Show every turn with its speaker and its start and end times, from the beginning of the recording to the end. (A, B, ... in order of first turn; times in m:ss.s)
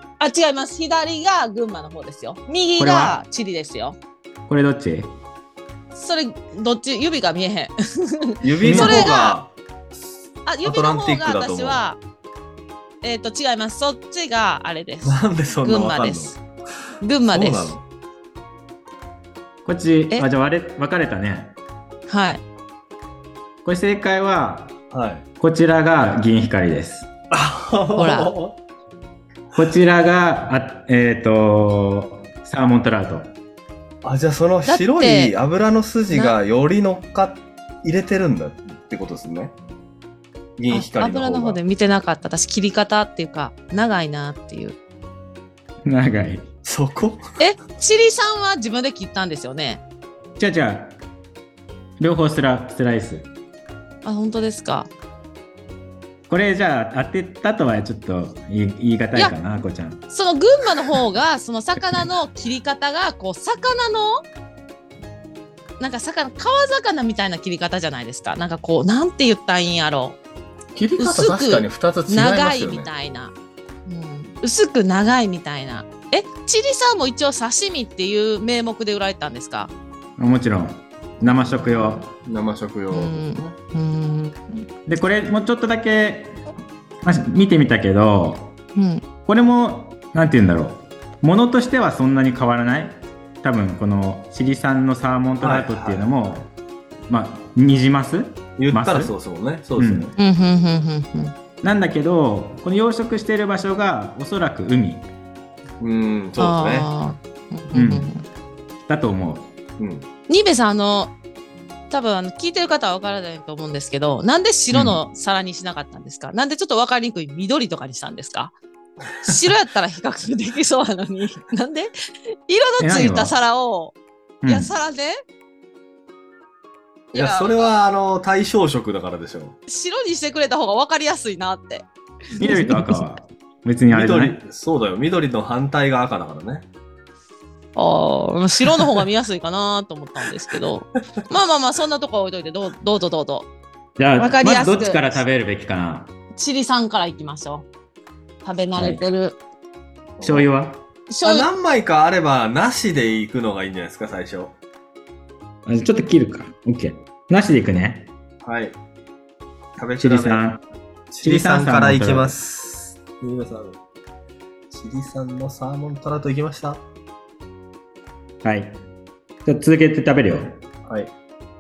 0:00.2-0:04.0 A
0:02.8-0:03.2 B
0:04.5-0:05.2 B
0:05.9-0:09.4 A
0:08.4-0:09.6 C
0:08.6-0:09.1 B
0:10.4-0:12.0 A
0:10.6-0:11.9 C
0:13.0-0:16.4 A
0:15.1-0:16.4 C
0:17.0-0:17.8 A
0:17.3-0:17.8 C
0:19.6-0:21.6 B
0:22.1-0:22.4 A
0:23.6-0:24.8 B
0:24.9-0:25.3 C
0:25.4-0:27.1 B
0:27.3-0:28.6 C
0:28.0-0:28.3 A
0:29.5-0:33.4 B
0:34.0-0:39.5 C
0:34.7-0:35.3 A
0:36.1-0:36.4 A
0:40.6-0:41.6 C
0:40.7-0:44.8 A
0:45.8-0:46.5 B
0:46.6-0:47.2 C
0:47.4-0:49.8 A
0:50.4-0:51.0 B
0:52.0-0:53.3 B
0:54.0-0:54.9 A
0:56.3-1:00.0 B
1:00.1-1:04.2 A
1:05.8-1:10.2 A
1:10.8-1:12.9 C
1:11.0-1:13.3 A
1:13.9-1:19.7 A
1:20.2-1:22.1 B
1:21.2-1:22.1 A
1:22.2-1:23.6 C
1:22.9-1:24.7 A
1:24.9-1:26.4 B
1:27.0-1:28.6 B
1:28.8-1:29.0 A
1:29.2-1:36.5 B
1:35.4-1:36.3 C
1:37.1-1:39.1 B
1:38.6-1:40.2 C
1:39.8-1:40.1 B
1:40.2-1:41.4 A
1:41.6-1:45.1 B
1:45.8-1:46.9 C
1:46.4-1:48.2 A
1:47.7-1:48.1 B
1:48.8-1:49.5 B
1:49.8-1:50.1 C
1:50.3-1:51.1 A
1:51.9-1:58.5 A
1:54.7-1:55.0 B
1:59.2-2:01.9 A
2:02.5-2:05.2 A
2:02.8-2:03.4 B
2:04.4-2:04.7 B
2:07.1-2:07.7 A
2:07.1-2:09.6 C
2:09.7-2:13.0 A
2:12.4-2:14.4 B
2:13.9-2:16.7 C
2:17.8-2:23.5 A
2:24.0-2:26.1 B
2:24.2-2:25.2 A
2:26.3-2:27.7 A
2:28.4-2:29.4 A
2:28.8-2:29.0 B
2:30.2-2:30.5 C
2:30.2-2:30.8 B
2:31.1-2:31.5 A
2:31.2-2:34.6 C
2:35.7-2:38.1 B
2:38.4-2:38.8 C
2:39.8-2:40.5 C
2:40.0-2:40.6 B
2:41.1-2:43.8 C
2:41.2-2:42.4 B
2:44.7-2:46.8 C
2:48.4-2:48.8 B
2:49.4-2:50.6 B
2:50.9-2:51.1 C